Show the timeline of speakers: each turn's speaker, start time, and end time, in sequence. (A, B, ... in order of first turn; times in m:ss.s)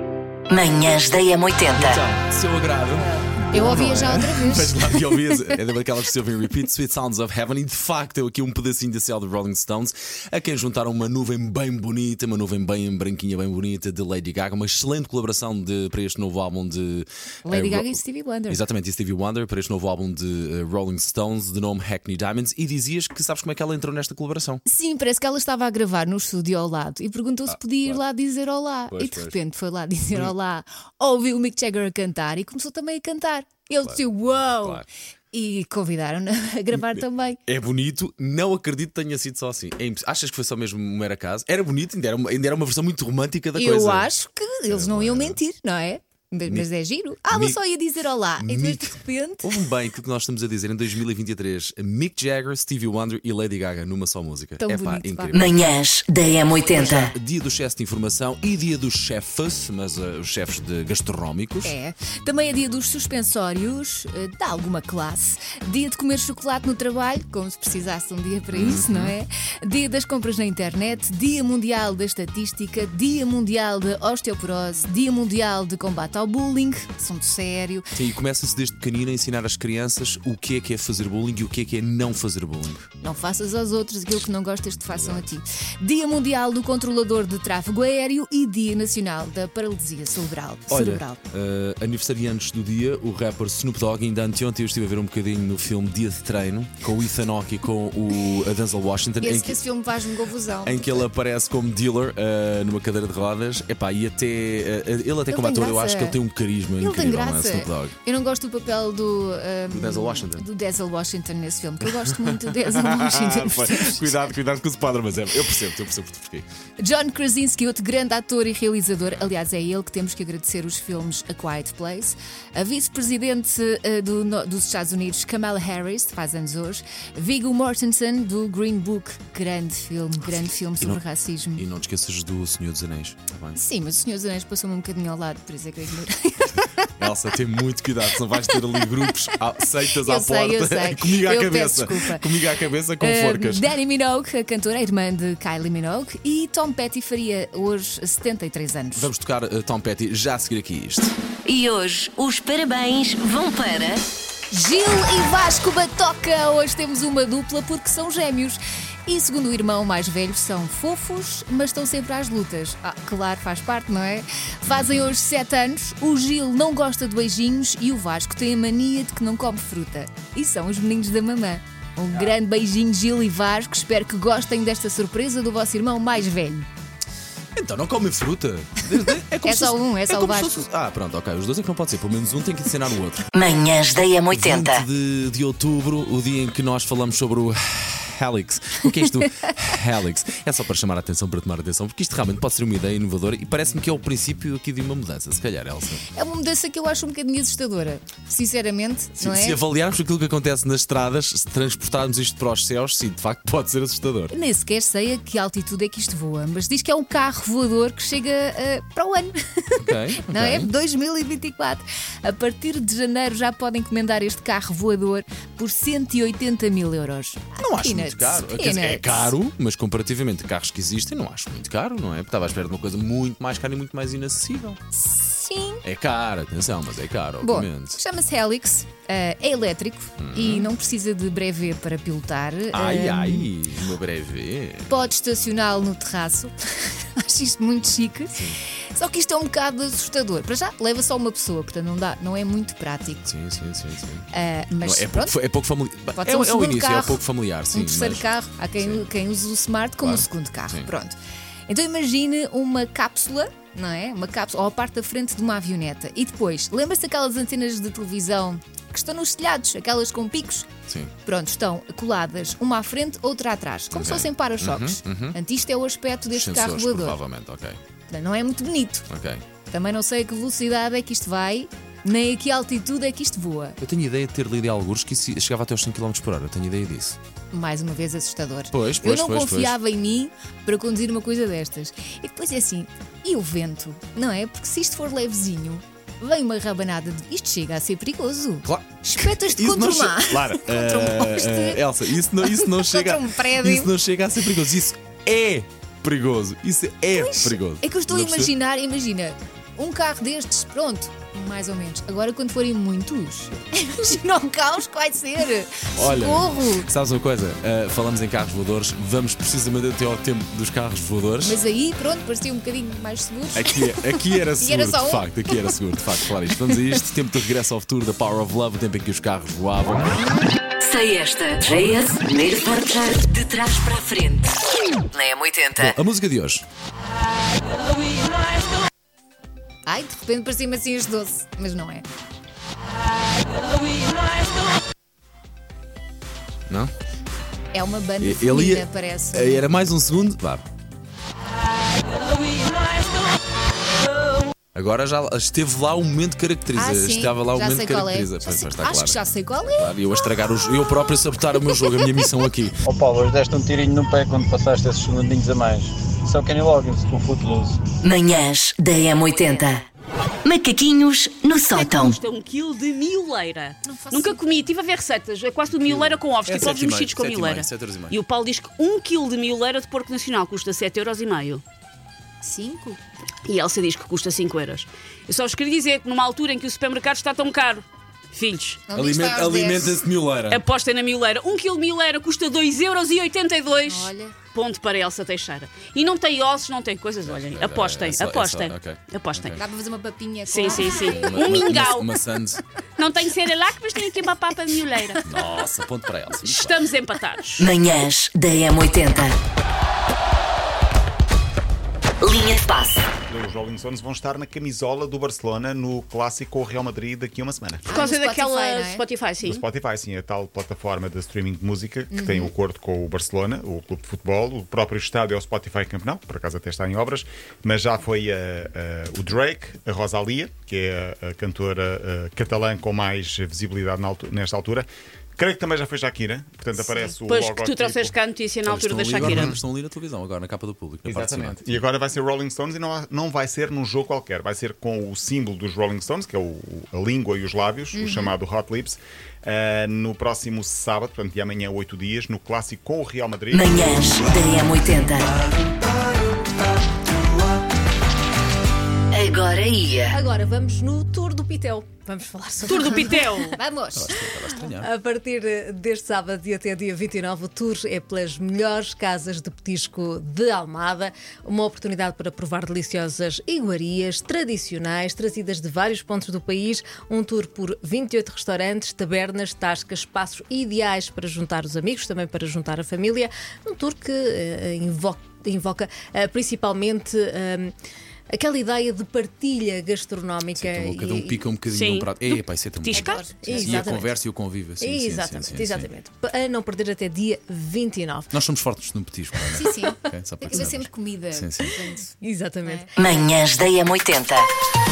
0:00.5-0:02.0 A
0:01.7-0:24.6 B
0:03.5-0:05.6 C
0:17.4-0:18.6 C
0:24.7-0:37.4 C
0:27.5-0:28.0 B
0:28.9-0:29.4 B
0:33.8-0:34.9 B
0:36.8-0:44.1 B
0:43.6-0:49.5 C
0:44.7-0:45.4 B
0:47.3-0:47.6 B
0:48.4-0:55.7 B
0:54.6-0:55.4 C
0:55.3-0:57.1 A
0:56.7-1:01.7 B
1:01.6-1:17.9 C
1:08.5-1:09.2 B
1:18.0-1:22.9 B
1:23.0-1:31.2 C
1:24.9-1:25.3 B
1:30.7-1:39.6 B
1:39.2-1:41.0 C
1:40.6-1:48.0 B
1:45.3-1:46.2 C
1:46.8-1:54.2 C
1:49.7-1:50.5 B
1:52.2-1:56.5 B
1:56.8-2:11.6 C
2:11.6-2:13.6 B
2:13.6-2:16.9 C
2:17.0-2:23.7 B
2:18.4-2:19.0 C
2:20.0-2:22.3 C
2:23.0-2:29.1 C
2:29.0-2:31.1 B
2:31.5-2:34.0 A
2:34.5-2:56.7 C
2:57.6-3:03.3 B
2:59.4-3:00.6 C
3:03.4-3:04.8 A
3:04.3-3:16.0 B
3:16.1-3:19.6 C
3:19.2-3:24.3 B
3:24.3-3:39.3 C
3:29.8-3:30.7 B
3:37.6-3:44.8 B
3:44.9-3:45.8 C
3:45.8-3:48.0 B
3:47.4-3:53.5 C
3:50.2-3:50.8 B
3:52.7-3:55.1 B
3:54.9-3:58.4 C
3:58.3-3:58.6 B
3:58.9-4:03.3 C
4:03.3-4:04.3 B
4:04.3-4:05.4 C
4:04.8-4:09.1 B
4:06.2-4:20.7 C
4:10.0-4:10.9 B
4:21.2-4:27.2 C
4:23.9-4:25.4 B
4:26.3-4:27.8 B
4:28.1-4:29.1 C
4:29.1-4:29.4 B
4:29.7-4:33.8 C
4:33.8-4:37.2 B
4:37.5-4:51.8 C
4:38.7-4:39.8 B
4:48.6-4:58.5 B
4:52.4-4:53.9 C
4:57.1-5:06.9 C
5:06.0-5:11.6 B
5:11.4-5:15.3 C
5:13.6-5:20.2 B
5:20.8-5:24.5 A
5:25.1-5:26.0 A
5:25.8-5:26.6 B
5:29.9-5:32.0 C
5:37.7-5:39.7 C
5:38.2-5:40.6 B
5:44.8-5:49.2 B
5:46.7-5:50.0 C
5:49.7-5:52.8 B
5:52.8-5:57.8 D
5:58.0-5:59.8 A
6:00.4-6:02.2 A
6:01.7-6:11.6 E
6:03.8-6:04.6 C
6:05.7-6:08.2 B
6:12.4-6:13.0 C
6:13.5-6:18.8 E
6:18.9-6:20.0 C
6:18.9-6:20.6 B
6:20.5-6:29.6 E
6:23.8-6:24.4 C
6:27.2-6:29.6 B
6:29.6-6:31.4 C
6:30.5-6:32.1 E
6:30.9-6:32.6 B
6:33.0-6:35.3 E
6:35.2-6:36.8 B
6:36.4-6:37.7 E
6:37.6-6:39.4 A
6:42.2-6:43.0 A
6:43.3-6:48.1 F
6:47.9-6:49.6 E
6:47.9-6:49.0 C
6:49.4-7:08.2 F
6:52.1-6:52.5 C
7:06.8-7:07.1 C
7:07.3-7:09.6 E
7:08.7-7:11.8 B
7:09.2-7:09.5 F
7:11.1-7:24.4 F
7:17.9-7:18.3 C
7:23.5-7:25.3 A
7:29.1-7:30.1 A
7:30.1-7:33.6 G
7:32.7-7:33.6 E
7:33.6-7:34.2 C
7:33.9-7:34.9 B
7:34.5-7:57.7 G
7:58.3-8:01.5 G
8:00.5-8:05.9 B
8:01.7-8:03.4 E
8:02.9-8:04.0 C
8:03.3-8:04.2 G
8:04.8-8:08.3 G
8:08.3-8:11.7 B
8:09.5-8:12.1 C
8:12.2-8:12.9 G
8:13.0-8:14.5 A